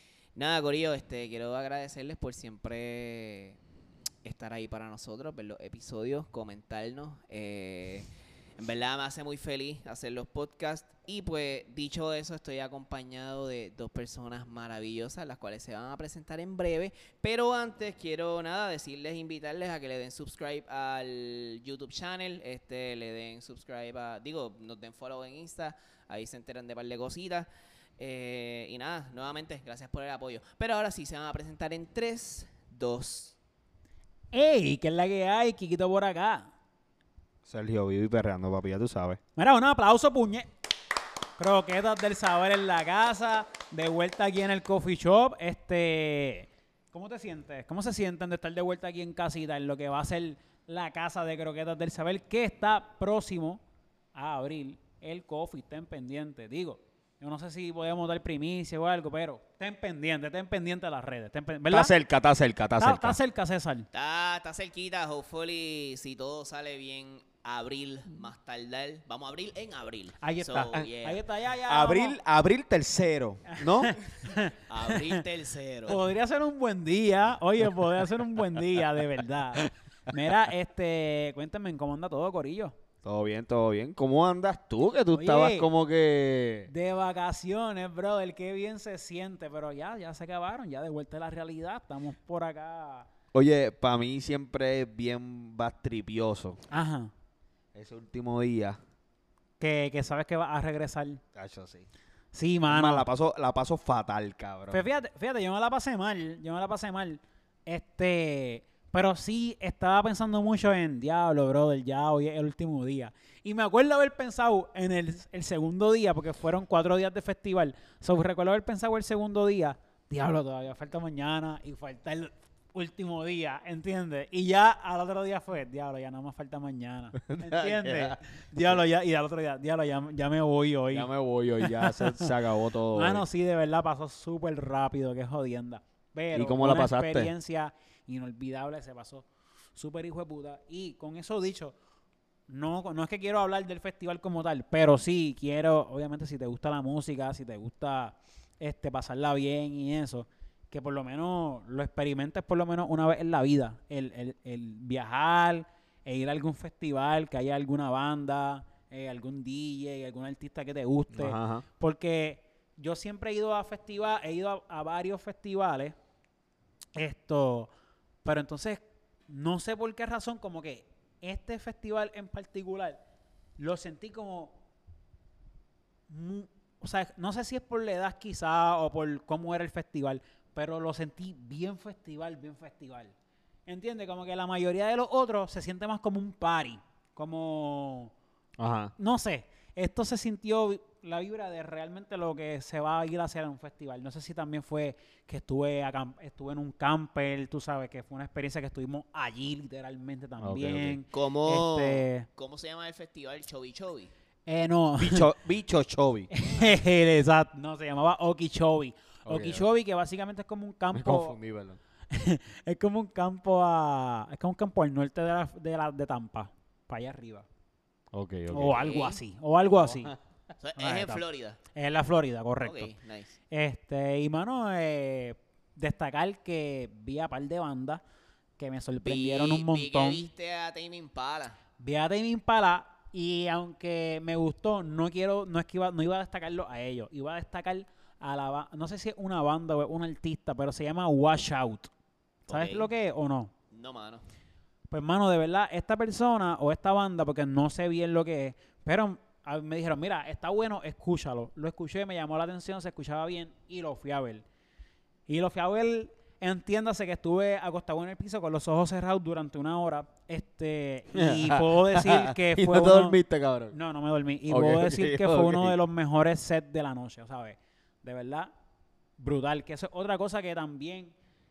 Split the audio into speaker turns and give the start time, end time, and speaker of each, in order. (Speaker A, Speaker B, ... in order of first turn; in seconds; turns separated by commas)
Speaker A: 0.4-3.6, Speaker A: 4.2-8.1, Speaker A: 8.6-27.5, Speaker A: 28.0-33.4, Speaker B: 34.3-36.5, Speaker C: 37.5-39.2, Speaker B: 39.4-40.5, Speaker B: 41.4-53.6, Speaker B: 54.1-61.9, Speaker C: 61.7-63.2, Speaker B: 62.8-63.9, Speaker A: 63.9-71.2, Speaker B: 70.2-72.2, Speaker C: 71.7-74.0, Speaker B: 73.5-75.2, Speaker A: 74.7-76.0, Speaker B: 75.9-82.8, Speaker C: 83.0-86.7, Speaker B: 85.1-85.7, Speaker B: 86.7-93.1, Speaker C: 93.3-96.6, Speaker B: 96.7-97.1, Speaker C: 97.7-98.8, Speaker B: 99.6-101.2, Speaker C: 101.3-101.9, Speaker B: 102.3-103.0, Speaker C: 102.7-104.8, Speaker B: 104.7-131.1, Speaker C: 127.2-128.8, Speaker C: 130.9-133.2, Speaker B: 131.6-132.3, Speaker B: 132.9-141.8, Speaker C: 136.3-137.3, Speaker B: 142.5-165.9, Speaker C: 161.1-161.7, Speaker B: 166.9-167.7, Speaker B: 168.2-173.0, Speaker B: 173.6-174.6, Speaker B: 176.1-183.1, Speaker B: 183.7-188.1, Speaker C: 188.6-188.9, Speaker B: 189.0-202.3, Speaker C: 200.4-201.0, Speaker A: 201.1-204.1, Speaker B: 204.5-205.3, Speaker C: 205.0-206.3, Speaker B: 206.3-211.4, Speaker C: 209.3-209.7, Speaker C: 210.9-211.8, Speaker B: 212.1-217.5, Speaker C: 218.1-219.0, Speaker B: 218.5-220.2, Speaker A: 218.7-219.1, Speaker C: 219.9-220.2, Speaker A: 220.6-221.6, Speaker B: 220.8-222.9, Speaker A: 222.6-223.3, Speaker B: 223.5-228.0, Speaker B: 228.6-230.3, Speaker A: 229.0-231.6, Speaker B: 231.8-241.9, Speaker A: 242.5-242.9, Speaker B: 242.5-243.5, Speaker A: 243.7-244.2, Speaker B: 244.9-254.4, Speaker B: 255.3-263.2, Speaker C: 261.1-263.8, Speaker B: 263.7-268.5, Speaker C: 264.5-265.8, Speaker B: 269.2-271.1